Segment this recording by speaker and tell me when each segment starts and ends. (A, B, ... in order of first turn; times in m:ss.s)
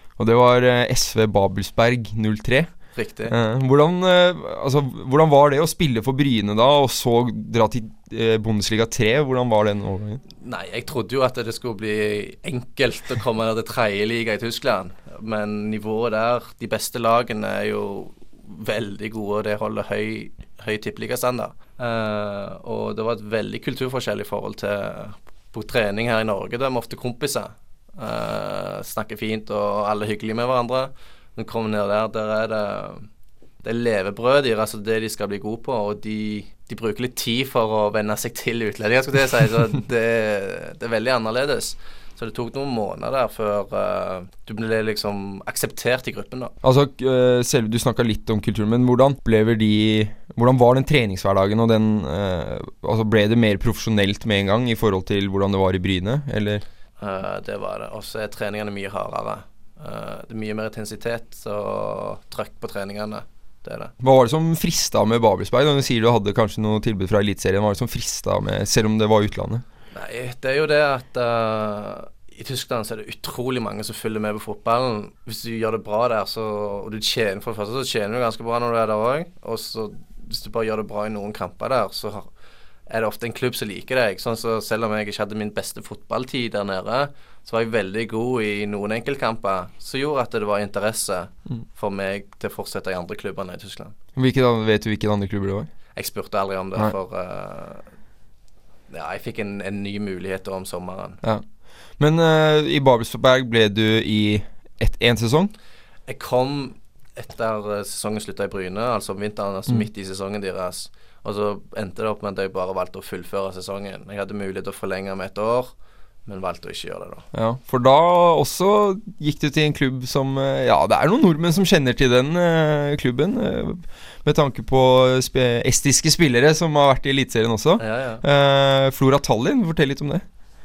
0:00.2-0:10.2 A
0:02.9-0:03.3 B
0:10.4-0:33.1 B
0:33.6-0:46.5 B
0:46.6-0:56.6 A
0:57.0-1:03.9 B
1:04.0-1:09.6 A
1:09.9-1:22.3 B
1:22.9-1:33.9 B
1:34.2-1:35.7 A
1:35.9-1:37.9 B
1:38.9-1:41.2 B
1:42.0-1:45.5 A
1:46.1-1:55.7 B
1:56.2-1:57.2 B
1:57.3-2:10.2 A
2:07.8-2:08.2 B